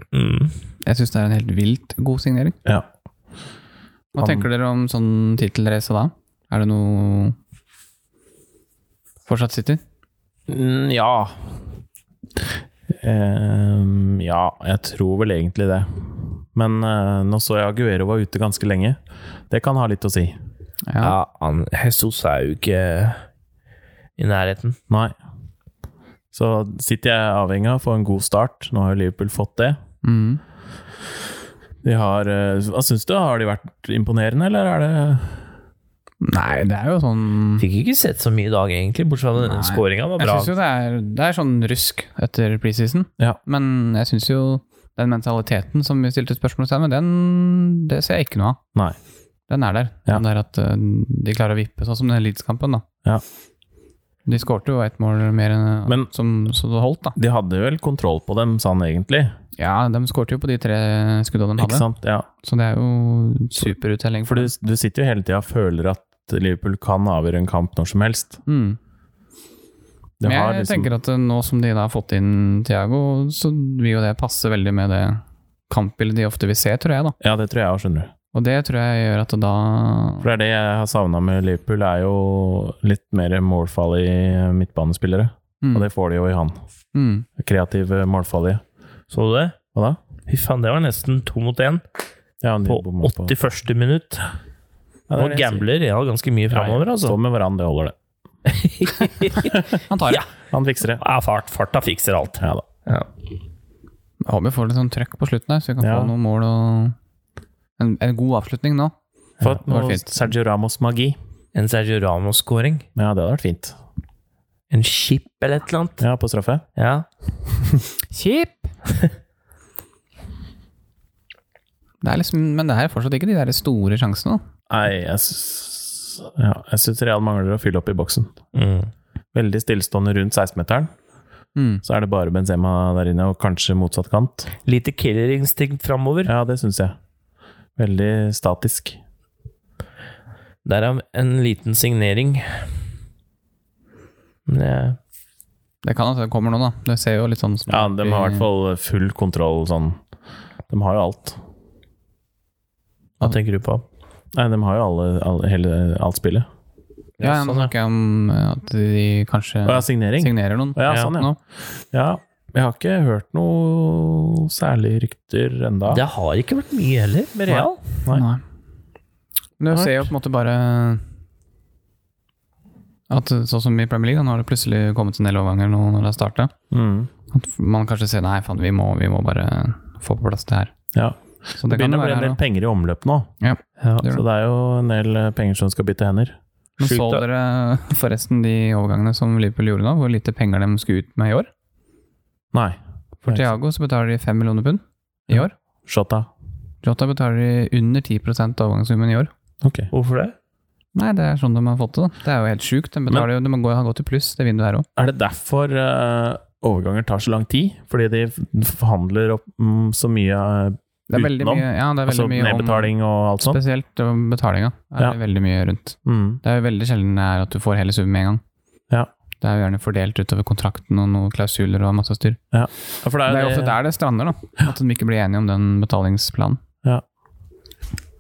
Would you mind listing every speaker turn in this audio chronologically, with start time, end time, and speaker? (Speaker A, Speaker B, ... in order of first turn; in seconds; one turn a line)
Speaker A: 0.1-0.6
Speaker B: 0.8-2.6
Speaker B: 4.2-7.4
Speaker C: 4.2-4.5
Speaker B: 9.3-9.8
Speaker C: 10.5-11.5
Speaker C: 12.9-19.0
Speaker C: 19.5-20.4
Speaker B: 20.9-21.2
Speaker A: 21.0-23.2
Speaker A: 24.2-24.8
Speaker C: 26.3-29.8
Speaker B: 30.0-30.4
Speaker C: 31.8-35.5
Speaker B: 36.2-37.6
Speaker A: 37.6-40.5
Speaker B: 39.4-48.6
Speaker B: 49.5-52.9
Speaker B: 54.3-57.2
Speaker C: 57.2-59.3
Speaker B: 59.6-64.5
Speaker C: 61.6-62.3
Speaker C: 64.3-68.4
Speaker B: 68.5-68.8
Speaker C: 70.2-70.9
Speaker B: 70.2-77.2
Speaker C: 77.2-78.1
Speaker B: 78.3-80.3
Speaker C: 80.2-86.6
Speaker B: 85.6-85.9
Speaker B: 86.9-87.3
Speaker C: 87.4-88.6
Speaker A: 89.1-89.6
Speaker C: 89.7-90.0
Speaker A: 90.3-91.8
Speaker C: 92.4-93.3
Speaker A: 92.7-94.2
Speaker C: 95.1-95.7
Speaker A: 95.2-97.2
Speaker C: 96.5-98.0
Speaker A: 98.5-100.3
Speaker B: 99.9-100.3
Speaker C: 100.4-101.0
Speaker A: 101.0-103.1
Speaker C: 102.4-102.7
Speaker B: 104.2-107.0
Speaker C: 105.8-106.1
Speaker B: 107.8-108.9
Speaker C: 109.4-111.2
Speaker B: 109.5-110.1
Speaker A: 111.5-112.9
Speaker C: 113.0-113.8
Speaker A: 114.7-116.0
Speaker C: 116.0-116.6
Speaker A: 116.8-117.1
Speaker B: 118.1-118.7
Speaker B: 122.0-124.4
Speaker C: 124.7-128.3
Speaker A: 128.5-128.9
Speaker C: 129.3-130.9
Speaker B: 131.6-131.8
Speaker C: 131.8-134.5
Speaker A: 134.7-136.3
Speaker C: 136.2-137.0
Speaker C: 137.8-139.0
Speaker A: 140.7-142.7
Speaker A: 144.5-145.0
Speaker B: 145.8-148.5
Speaker C: 147.7-150.0
Speaker C: 150.7-151.4
Speaker A: 153.2-153.8
Speaker C: 154.3-156.5
Speaker B: 157.2-161.4
Speaker A: 157.2-157.6
Speaker C: 157.4-157.7
Speaker C: 159.7-161.3
Speaker C: 161.9-166.0
Speaker A: 165.9-167.8
Speaker C: 167.5-168.2
Speaker B: 168.1-168.4
Speaker B: 169.6-171.0
Speaker C: 169.7-170.1
Speaker B: 173.1-176.5
Speaker C: 176.7-177.1
Speaker B: 177.3-180.7
Speaker C: 180.9-183.3
Speaker B: 181.6-182.4
Speaker B: 183.4-184.2
Speaker C: 184.0-186.4
Speaker B: 186.8-191.5
Speaker A: 186.8-187.2
Speaker C: 192.5-193.5
Speaker B: 193.2-195.5
Speaker C: 195.3-196.3
Speaker B: 196.8-199.3
Speaker C: 199.6-199.9
Speaker A: 199.9-200.3
Speaker B: 200.9-204.9
Speaker C: 205.0-213.6
Speaker B: 211.1-218.4
Speaker C: 216.1-216.4
Speaker B: 219.4-222.4
Speaker C: 222.5-223.8
Speaker B: 223.2-226.6